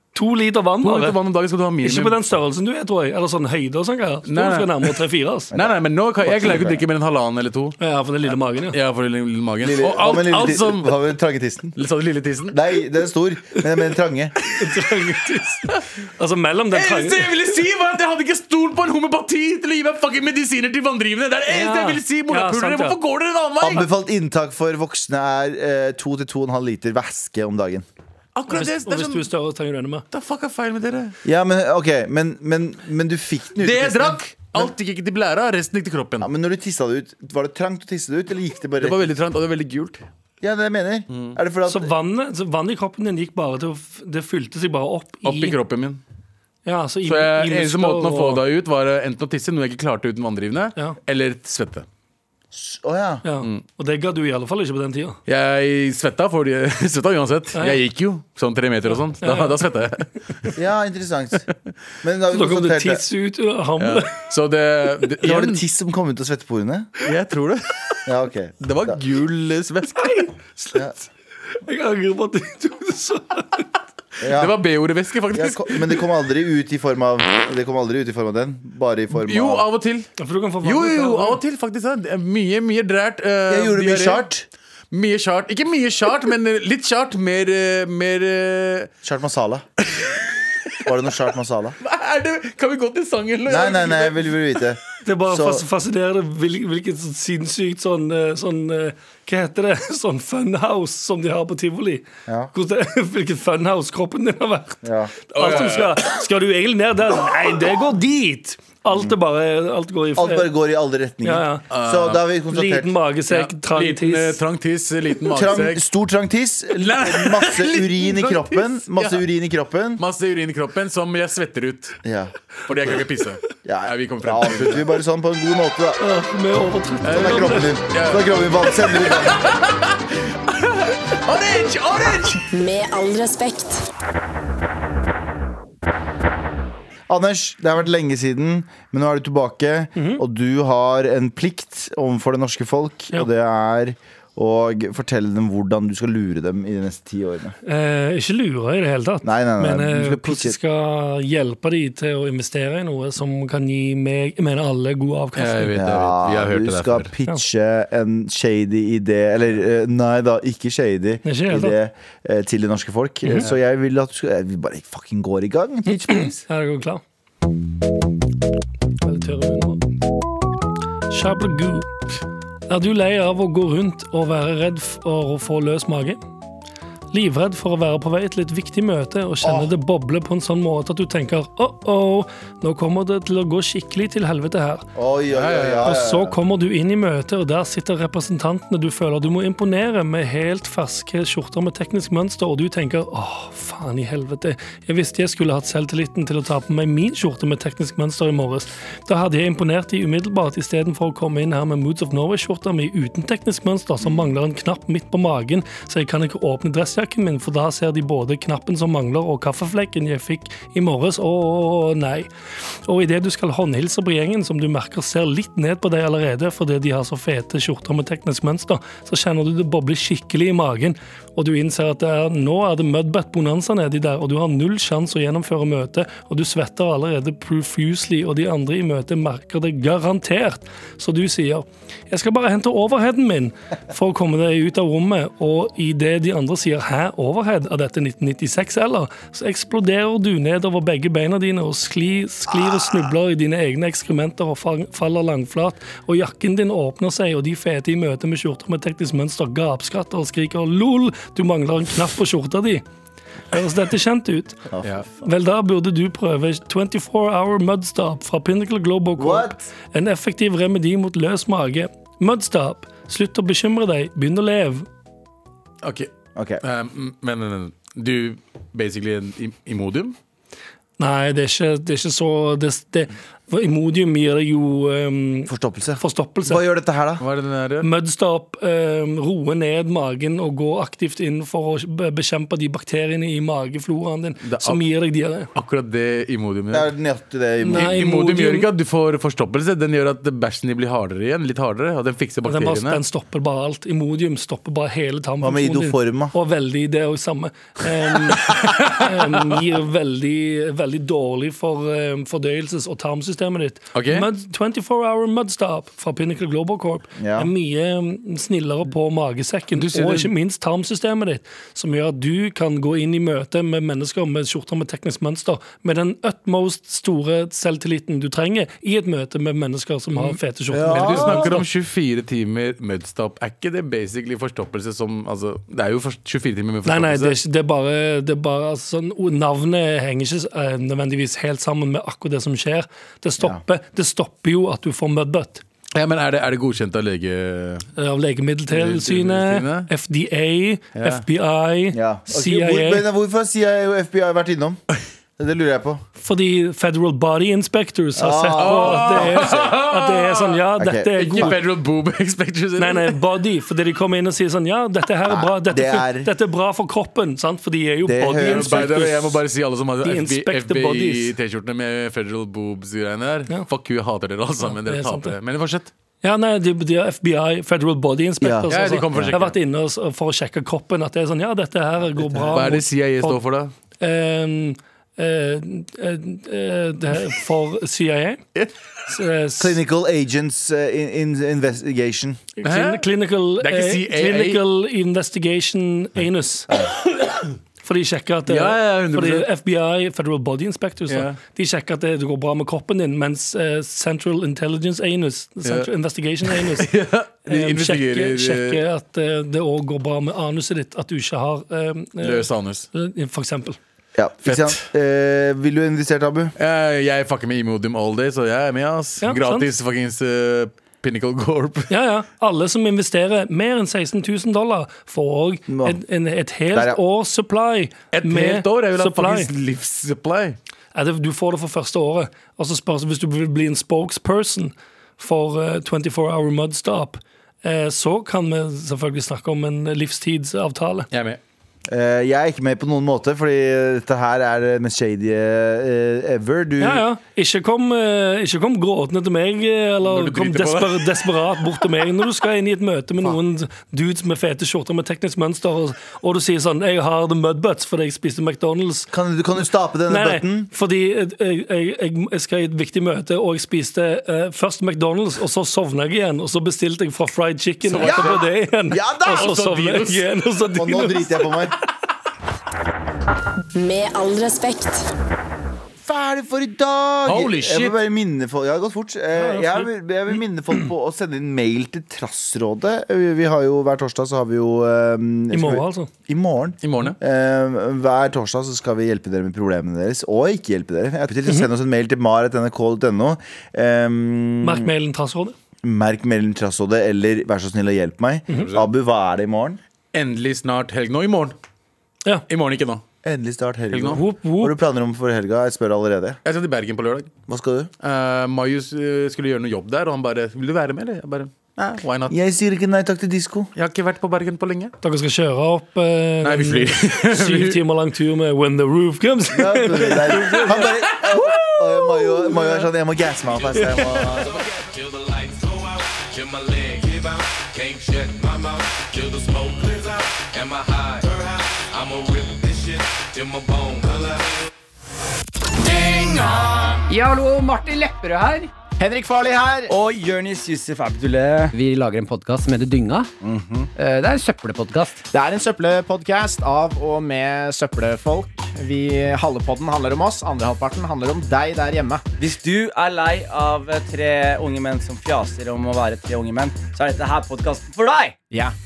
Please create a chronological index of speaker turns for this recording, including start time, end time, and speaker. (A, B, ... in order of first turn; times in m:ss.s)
0:00.1-0:01.2 A
0:00.8-0:02.2 B
0:01.8-0:05.5 A
0:04.2-0:05.0 B
0:05.5-0:06.8 C
0:05.5-0:07.8 B
0:07.8-0:08.8 A
0:08.7-0:11.0 B
0:09.6-0:11.7 C
0:11.8-0:12.6 B
0:12.5-0:14.4 C
0:14.4-0:17.3 A
0:16.7-0:23.9 B
0:21.5-0:23.0 A
0:23.6-0:27.8 C
0:28.3-0:29.3 B
0:28.5-0:30.0 A
0:30.1-0:31.1 B
0:31.2-0:34.7 C
0:33.6-0:36.3 B
0:36.2-0:39.1 C
0:38.8-0:40.0 B
0:40.4-0:41.9 C
0:41.1-0:41.4 B
0:41.7-0:45.6 A
0:45.2-0:46.0 B
0:46.6-0:48.4 A
0:47.0-0:51.8 B
0:52.5-0:53.2 C
0:53.2-0:55.2 A
0:55.3-1:00.2 B
0:57.5-0:57.8 A
0:59.2-0:59.5 A
1:00.5-1:01.5 C
1:02.0-1:03.0 C
1:02.3-1:04.1 A
1:03.8-1:05.6 B
1:05.2-1:06.9 C
1:07.0-1:08.0 B
1:08.0-1:09.0 C
1:08.6-1:10.8 B
1:11.6-1:13.7 A
1:14.2-1:16.0 B
1:14.2-1:14.6 C
1:15.3-1:19.6 C
1:19.1-1:20.1 B
1:20.2-1:21.4 A
1:20.6-1:24.3 B
1:23.5-1:24.4 C
1:24.9-1:28.9 B
1:29.0-1:29.6 C
1:29.8-1:30.3 B
1:30.8-1:31.8 C
1:31.8-1:34.3 B
1:33.5-1:35.6 C
1:35.0-1:50.5 A
1:44.8-1:45.1 C
1:45.3-1:46.0 B
1:48.9-1:49.2 C
1:50.2-1:52.9 C
1:51.2-1:51.6 A
1:51.7-1:52.2 B
1:52.5-1:54.4 A
1:53.3-1:55.8 B
1:55.3-2:00.0 C
1:56.8-1:59.2 B
2:00.0-2:02.0 B
2:02.0-2:02.3 C
2:02.6-2:04.9 B
2:03.6-2:06.0 C
2:06.0-2:07.7 A
2:07.0-2:12.4 B
2:07.1-2:09.5 C
2:12.5-2:13.8 D
2:17.1-2:27.5 C
2:20.0-2:20.2 A
2:27.6-2:35.8 A
2:29.2-2:30.6 C
2:35.4-2:37.1 B
2:35.7-2:46.4 C
2:41.2-2:41.8 A
2:46.1-2:47.0 A
2:49.0-2:49.8 A
2:51.1-2:51.9 A
2:52.7-2:56.2 A
2:57.1-3:04.9 A
2:59.4-2:59.7 C
3:04.9-3:06.4 C
3:05.3-3:05.9 B
3:05.8-3:32.3 A
3:32.8-4:12.8 A
4:13.5-4:14.7 A
4:14.7-4:15.0 C
4:15.2-4:24.8 A
4:19.2-4:19.7 C
4:25.8-4:26.1 B
4:26.4-4:26.6 C
4:26.6-4:30.2 B
4:31.0-4:36.6 A
4:35.5-4:37.2 C
4:37.2-4:37.9 B
4:37.8-4:45.5 A
4:44.4-4:44.8 B
4:45.5-4:46.9 B
4:46.7-4:48.0 C
4:47.6-4:48.7 A
4:47.6-4:53.0 B
4:52.4-5:21.6 A
4:55.4-4:56.3 C
4:58.4-4:59.6 B
5:03.9-5:04.3 B
5:07.2-5:07.5 C
5:09.7-5:10.3 B
5:20.2-5:27.3 B
5:20.7-5:21.6 C
5:26.8-5:35.6 A
5:35.9-5:37.9 B
5:38.0-5:43.0 A
5:38.7-5:39.9 B
5:40.9-5:41.2 B
5:41.9-5:44.8 C
5:45.4-5:46.0 C
5:46.2-5:51.6 A
5:48.2-5:49.6 C
5:48.6-5:50.6 B
5:50.8-5:51.6 C
5:51.2-5:53.2 B
5:52.8-5:59.0 A
5:55.3-5:56.3 C
5:58.0-5:59.4 C
5:58.4-6:05.9 B
6:00.0-6:01.3 A
6:04.6-6:05.3 A
6:06.2-6:13.4 A
6:08.4-6:09.4 C
6:08.7-6:09.5 B
6:12.2-6:12.6 C
6:12.5-6:13.7 B
6:14.0-6:18.4 A
6:19.1-6:19.8 A
6:19.6-6:22.4 C
6:22.6-6:26.7 A
6:22.6-6:23.0 B
6:23.6-6:24.6 B
6:27.1-6:27.5 B
6:27.8-6:36.9 A
6:28.5-6:29.5 B
6:31.1-6:31.4 B
6:36.4-6:38.8 B
6:37.4-6:43.8 A
6:42.2-6:42.9 B
6:44.2-6:46.5 C
6:44.4-6:44.8 B
6:46.6-6:51.9 B
6:49.2-6:49.7 A
6:51.9-6:59.5 A
6:55.7-6:56.0 C
6:56.7-6:57.0 C
6:58.1-7:00.6 B
7:00.9-7:11.1 A
7:11.1-7:11.4 B
7:11.9-7:17.0 C
7:16.8-7:29.1 A
7:20.0-7:21.6 B
7:29.1-7:30.7 C
7:30.1-7:41.6 A
7:37.8-7:38.4 B
7:38.0-7:39.6 C
7:39.2-7:40.2 B
7:40.7-7:41.8 C
7:43.7-7:45.1 D
7:46.0-8:04.9 C
7:47.2-7:48.0 B
7:49.4-7:49.9 A
7:55.5-7:56.1 A
7:56.8-7:57.2 B
8:04.6-8:05.5 A
8:05.8-8:09.8 C
8:08.5-8:08.8 B
8:10.1-8:11.6 B
8:12.5-8:13.0 B
8:13.2-8:16.4 C
8:13.9-8:14.2 B
8:14.1-8:14.8 A
8:16.4-8:17.3 B
8:17.5-8:17.9 C
8:18.0-8:22.4 B
8:22.3-8:23.7 C
8:23.8-8:24.9 B
8:25.0-8:32.9 A
8:26.4-8:27.8 B
8:29.5-8:34.6 C
8:30.5-8:31.6 B
8:33.5-8:44.7 E
8:33.8-8:34.2 A
8:45.7-8:47.0 E
8:47.1-8:48.7 F
8:49.0-8:49.9 G
8:49.9-8:51.7 H
8:51.7-8:53.3 F
8:54.0-8:55.2 F
8:55.3-9:02.2 G
9:02.4-9:08.4 H
9:08.5-9:08.8 G